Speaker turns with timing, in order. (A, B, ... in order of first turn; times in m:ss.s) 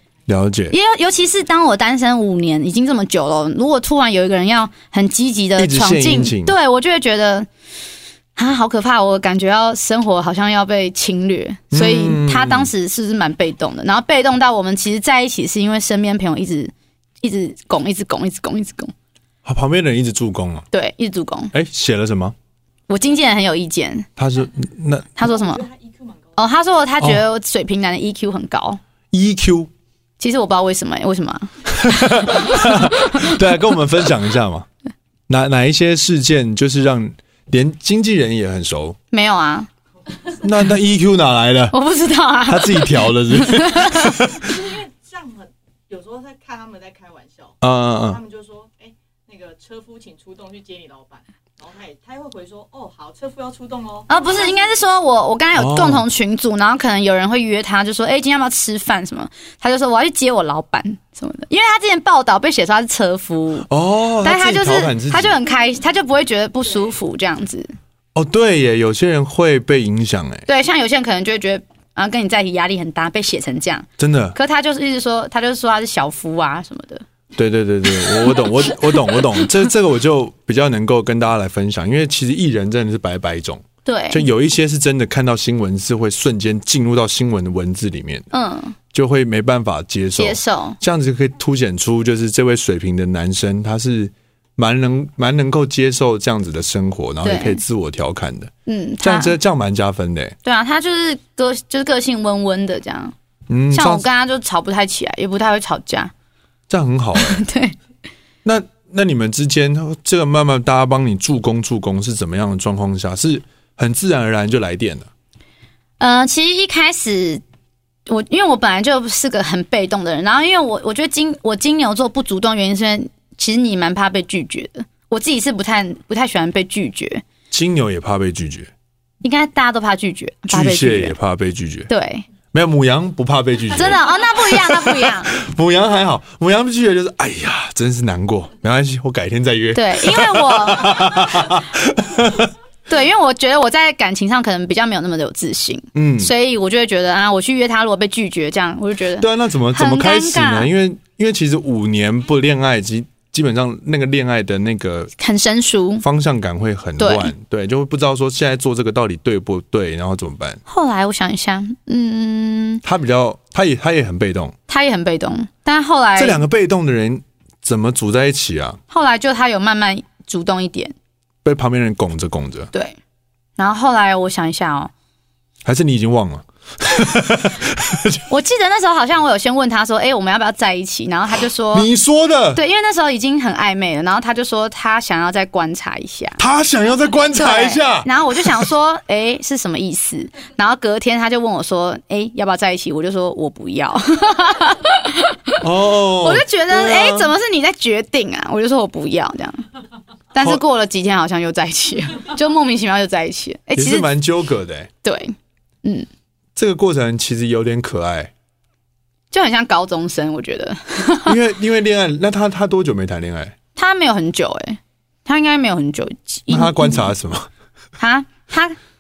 0:00.3-0:00.8 A
0:00.7-0:07.5 B
0:05.6-0:06.6 A
0:08.4-0:18.9 B
0:11.7-0:12.7 A
0:19.4-0:20.7 A
0:20.7-0:21.5 B
0:21.5-0:22.4 A
0:22.9-0:24.1 B
0:24.2-0:25.2 A
0:25.2-0:25.7 B
0:25.2-0:26.4 C
0:26.4-0:28.8 B
0:29.1-0:29.7 A
0:30.2-0:33.4 B
0:31.7-0:34.7 A
0:35.3-0:39.0 A
0:39.1-0:39.7 B
0:40.4-0:41.8 A
0:41.7-0:44.2 B
0:42.5-0:44.5 A
0:44.2-0:54.6 C
0:47.6-0:48.2 A
0:54.1-1:03.7 B
0:55.6-0:56.0 A
1:03.7-1:05.4 A
1:04.2-1:07.7 B
1:08.2-1:10.5 A
1:10.5-1:17.0 B
1:14.0-1:14.4 A
1:17.4-1:28.3 A
1:18.1-1:19.2 B
1:23.8-1:24.3 B
1:28.3-1:28.8 B
1:28.9-1:40.4 A
1:30.2-1:30.8 B
1:37.2-1:37.6 B
1:38.7-1:39.4 B
1:40.4-1:43.1 B
1:43.5-1:44.1 A
1:43.7-1:46.1 B
1:46.7-1:47.4 A
1:47.2-1:47.8 B
1:48.4-1:55.1 A
1:56.0-1:57.4 B
1:58.1-2:07.2 B
2:07.5-2:08.7 A
2:09.2-2:11.2 B
2:10.5-2:11.9 A
2:11.9-2:12.3 B
2:12.5-2:22.5 A
2:13.7-2:15.3 B
2:19.7-2:21.5 B
2:22.9-2:30.7 B
2:26.0-2:26.3 A
2:29.2-2:35.1 A
2:35.2-2:36.0 B
2:36.0-2:40.6 A
2:37.0-2:37.3 B
2:40.7-2:42.8 B
2:42.8-2:44.6 A
2:44.7-2:46.4 B
2:46.2-2:48.8 A
2:48.9-2:50.9 B
2:51.4-2:52.7 A
2:53.6-2:54.9 B
2:55.6-2:58.2 A
2:58.3-3:01.9 B
3:01.7-3:02.6 A
3:02.6-3:06.4 B
3:06.4-3:08.7 A
3:07.3-3:15.6 B
3:15.6-3:17.3 A
3:16.2-3:19.6 B
3:20.3-3:24.1 B
3:23.8-3:24.9 A
3:25.0-3:26.1 B
3:26.6-3:28.3 A
3:29.3-3:31.4 B
3:31.2-3:33.6 A
3:33.8-3:37.1 B
3:36.5-3:37.5 A
3:38.0-3:38.8 B